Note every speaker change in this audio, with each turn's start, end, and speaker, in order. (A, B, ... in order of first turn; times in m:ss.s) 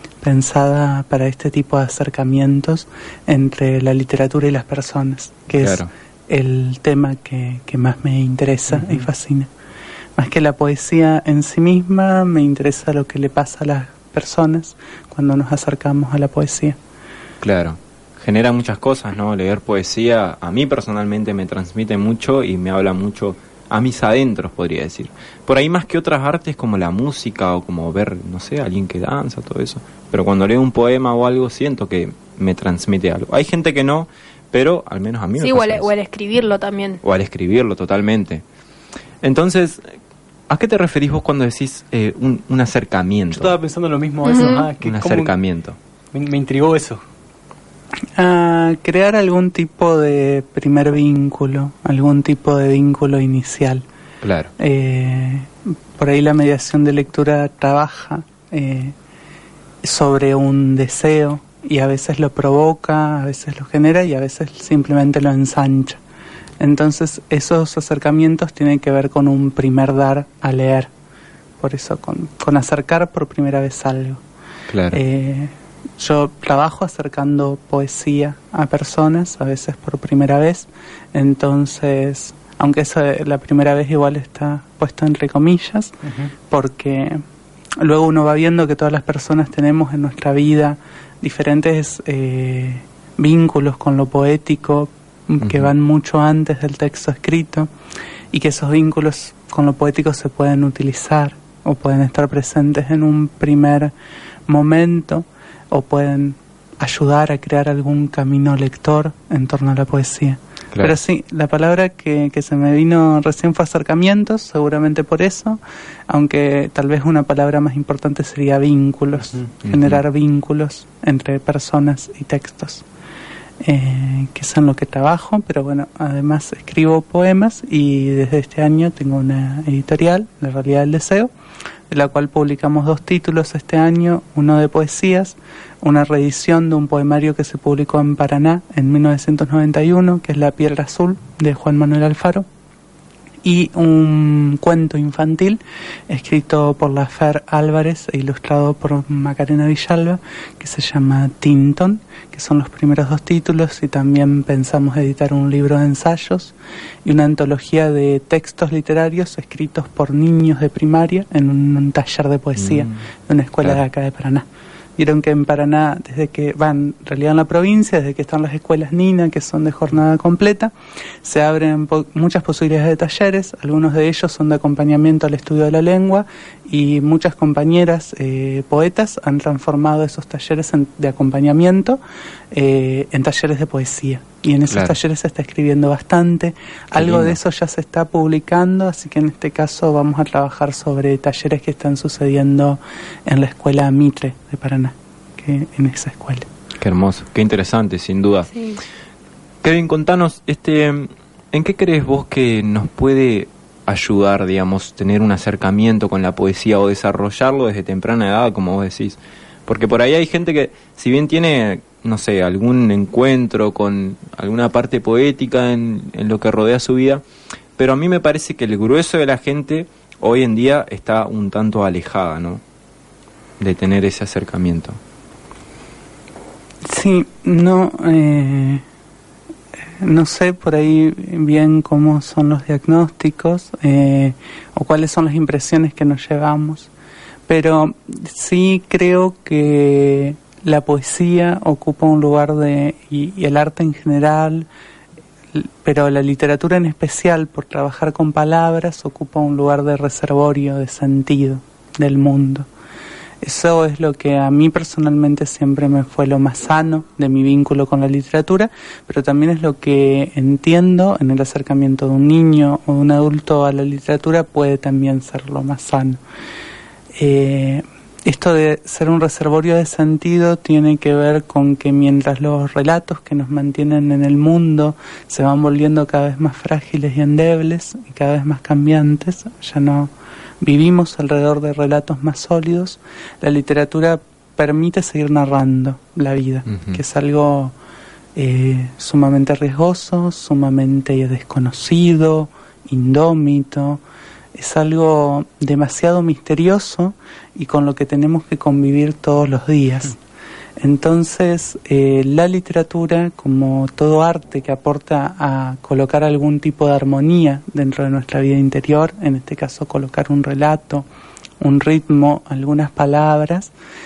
0:00.2-0:09.5 A
0:05.6-0:05.9 B
0:08.7-0:09.1 B
0:10.2-0:16.8 A
0:17.4-0:35.9 B
0:35.4-0:37.0 C
0:37.0-0:38.4 B
0:39.2-0:39.9 B
0:40.5-0:43.6 B
0:43.3-0:45.3 D
0:44.2-0:44.6 C
0:44.3-0:45.8 B
0:46.1-0:47.0 D
0:48.2-0:53.8 A
0:54.2-0:54.5 B
0:54.6-0:59.0 A
0:59.8-1:06.0 A
1:06.6-1:10.9 A
1:11.6-1:14.2 A
1:14.7-1:15.0 B
1:14.9-1:27.2 A
1:26.0-1:26.3 D
1:27.8-1:37.7 A
1:35.4-1:35.7 B
1:38.3-1:43.9 A
1:44.5-2:02.8 A
1:59.6-2:00.0 B
2:03.6-2:11.3 A
2:11.9-2:22.5 A
2:23.4-2:44.4 A
2:42.6-2:43.0 B
2:45.0-2:50.7 A
2:51.2-3:02.0 A
3:02.5-3:16.5 A
3:04.7-3:05.0 B
3:06.9-3:07.4 B
3:16.8-3:18.5 B
3:18.5-3:18.8 C
3:19.6-3:37.2 B
3:37.8-3:42.6 B
3:43.6-3:45.0 B
3:46.9-3:48.8 A
3:50.0-3:56.9 A
3:57.5-4:04.7 A
4:05.6-4:12.7 A
4:13.4-4:26.2 A
4:27.2-4:47.7 A
4:46.7-4:47.0 B
4:48.4-4:54.0 A
4:54.6-5:00.2 A
5:00.8-5:11.0 A
5:11.6-5:13.7 A